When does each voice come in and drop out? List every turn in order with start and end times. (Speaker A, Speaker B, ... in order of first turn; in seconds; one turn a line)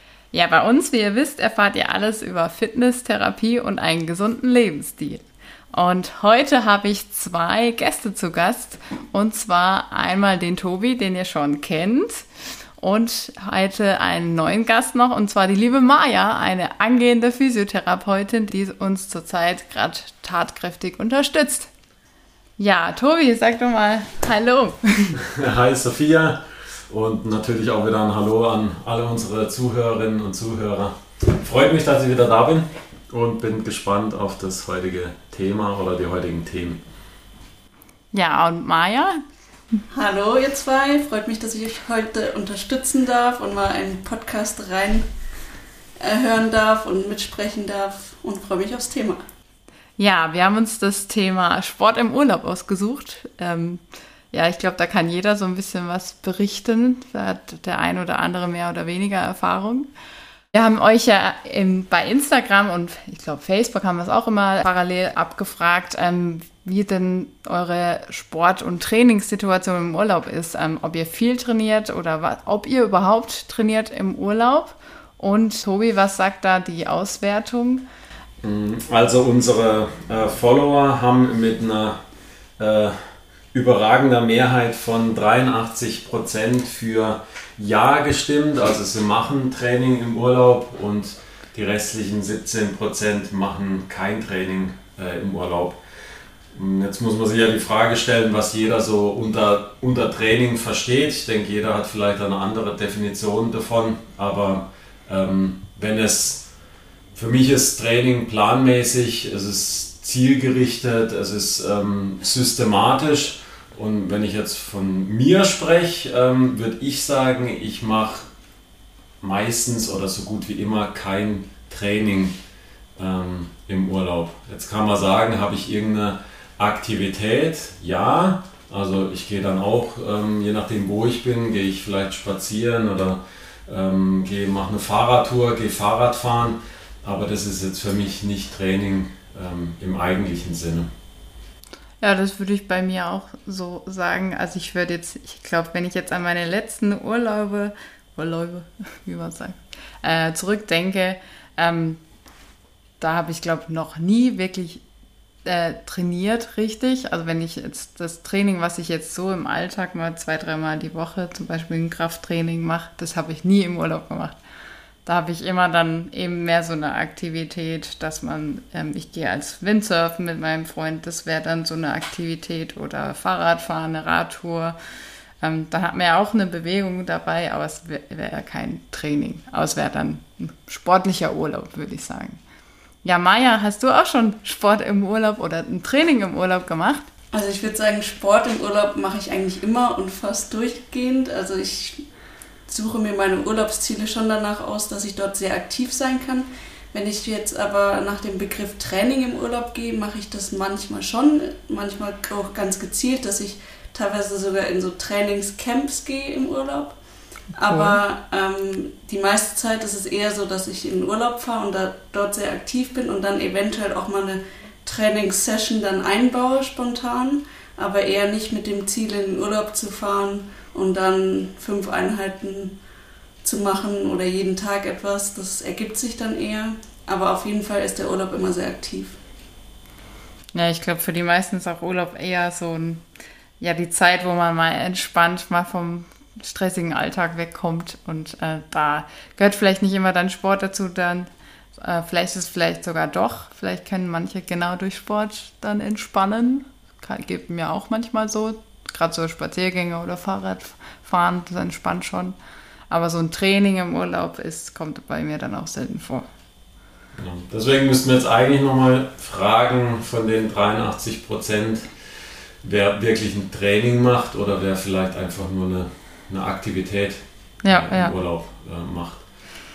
Speaker A: 0.3-5.2
Speaker A: 5.7-12.3
Speaker A: 12.8-21.7
Speaker A: 22.6-25.2
Speaker B: 25.2-36.8
Speaker A: 38.1-39.2
Speaker C: 39.9-45.0
Speaker C: 46.0-49.2
Speaker A: 50.0-59.9
Speaker A: 60.5-77.8
Speaker B: 78.4-82.0
Speaker B: 82.6-82.9
Speaker B: 83.5-95.8
Speaker B: 96.5-106.5
Speaker B: 107.1-118.3
Speaker B: 119.2-122.4
Speaker B: 123.0-140.9
Speaker A: 142.0-152.0
Speaker A: 153.0-154.8
Speaker A: 155.4-164.3
Speaker A: 165.0-174.7
Speaker A: 175.4-182.4
Speaker A: 183.0-187.1
Speaker C: 187.3-192.0
Speaker C: 192.7-206.9
Speaker C: 207.6-222.8
Speaker A: 207.6-208.0
Speaker C: 223.4-229.2
Speaker A: 230.5-233.0
Speaker A: 233.6-252.4
Speaker A: 252.9-256.2
Speaker B: 257.2-261.9
Speaker B: 262.6-269.2
Speaker A: 267.6-268.1